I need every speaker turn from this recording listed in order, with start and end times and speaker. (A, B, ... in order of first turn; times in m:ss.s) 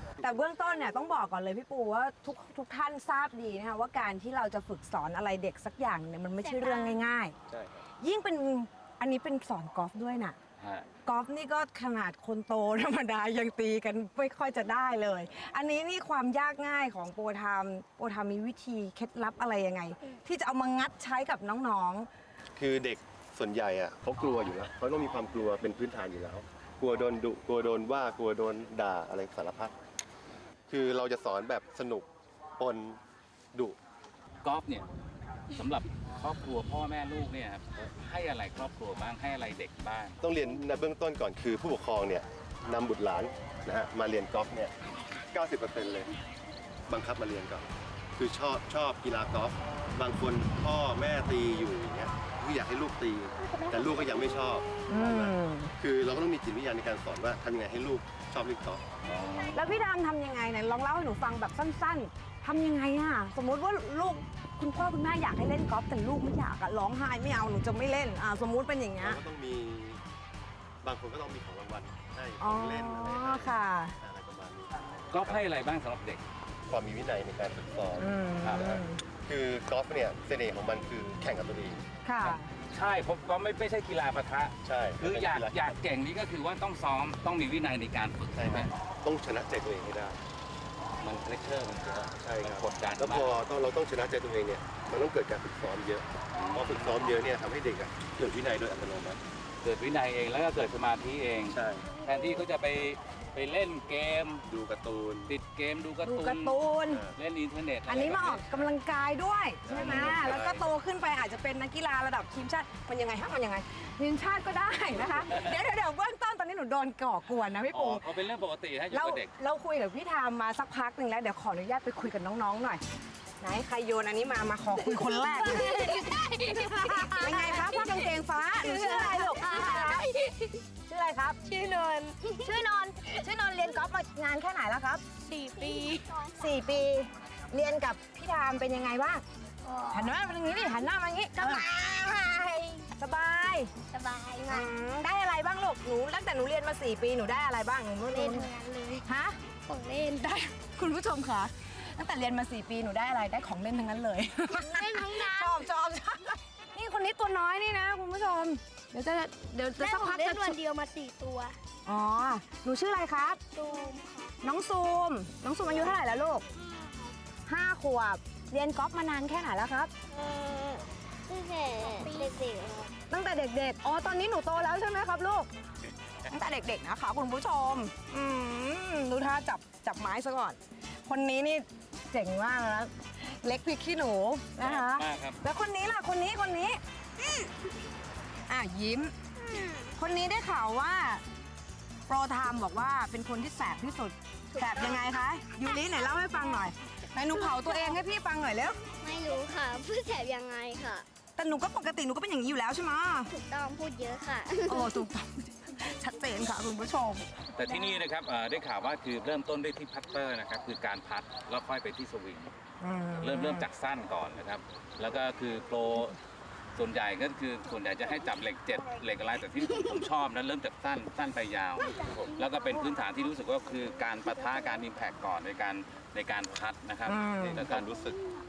0:00.2-0:07.4 A
0:06.4-0:07.1 B
0:07.5-0:07.8 C
0:08.0-0:10.4 A
0:10.6-0:10.9 D
0:11.1-0:22.1 A
0:22.6-0:29.7 C
0:30.7-0:33.0 C
0:34.4-0:34.9 D
0:35.5-0:40.2 D
0:40.2-0:44.7 C
0:45.3-0:46.1 C
0:46.9-0:47.6 C
0:48.2-0:58.9 C
0:53.4-0:54.5 B
0:54.9-0:55.7 A
0:59.0-0:59.7 D
0:59.5-1:09.2 A
1:09.0-1:10.0 C
1:10.8-1:15.5 C
1:12.4-1:14.0 A
1:15.1-1:16.2 D
1:16.7-1:21.8 C
1:18.0-1:19.0 A
1:22.0-1:22.5 A
1:22.2-1:28.7 D
1:24.6-1:25.8 C
1:28.4-1:30.2 C
1:31.0-1:33.4 D
1:32.0-1:39.2 C
1:36.4-1:37.2 D
1:39.6-1:44.4 D
1:41.5-1:41.9 C
1:44.5-1:45.3 C
1:45.3-1:46.6 D
1:46.0-1:47.0 A
1:47.2-1:48.5 D
1:47.9-1:58.0 A
1:49.7-1:50.6 C
1:49.7-1:50.4 D
1:57.7-1:59.3 D
1:58.9-2:02.8 A
2:03.4-2:10.0 A
2:04.8-2:10.6 B
2:10.9-2:11.4 A
2:11.4-2:12.6 B
2:12.4-2:15.0 A
2:15.2-2:16.5 B
2:16.4-2:19.2 A
2:19.6-2:20.8 B
2:19.9-2:21.7 A
2:21.4-2:22.9 B
2:23.0-2:23.7 A
2:23.9-2:24.7 B
2:24.4-2:28.5 A
2:28.1-2:29.1 B
2:29.0-2:29.4 A
2:29.6-2:30.5 B
2:30.7-2:40.6 A
2:34.6-2:35.7 B
2:39.8-2:41.6 B
2:41.9-2:43.4 A
2:43.5-2:44.4 B
2:44.4-2:46.4 A
2:45.6-2:46.0 B
2:46.6-2:47.2 B
2:47.5-2:49.9 A
2:50.1-2:52.9 B
2:53.1-2:55.5 A
2:56.3-3:06.8 A
3:04.6-3:05.4 D
3:08.5-3:09.1 A
3:09.4-3:10.0 B
3:10.0-3:11.2 A
3:12.1-3:18.8 A
3:14.5-3:18.0 B
3:18.9-3:21.1 B
3:21.4-3:23.3 A
3:23.3-3:25.1 B
3:24.7-3:27.3 A
3:27.6-3:32.5 D
3:27.6-3:28.0 B
3:32.8-3:33.7 A
3:33.2-3:36.2 D
3:36.8-3:48.2 D
3:42.0-3:43.1 B
3:44.0-3:44.6 B
3:47.1-3:47.6 A
3:47.6-3:47.9 C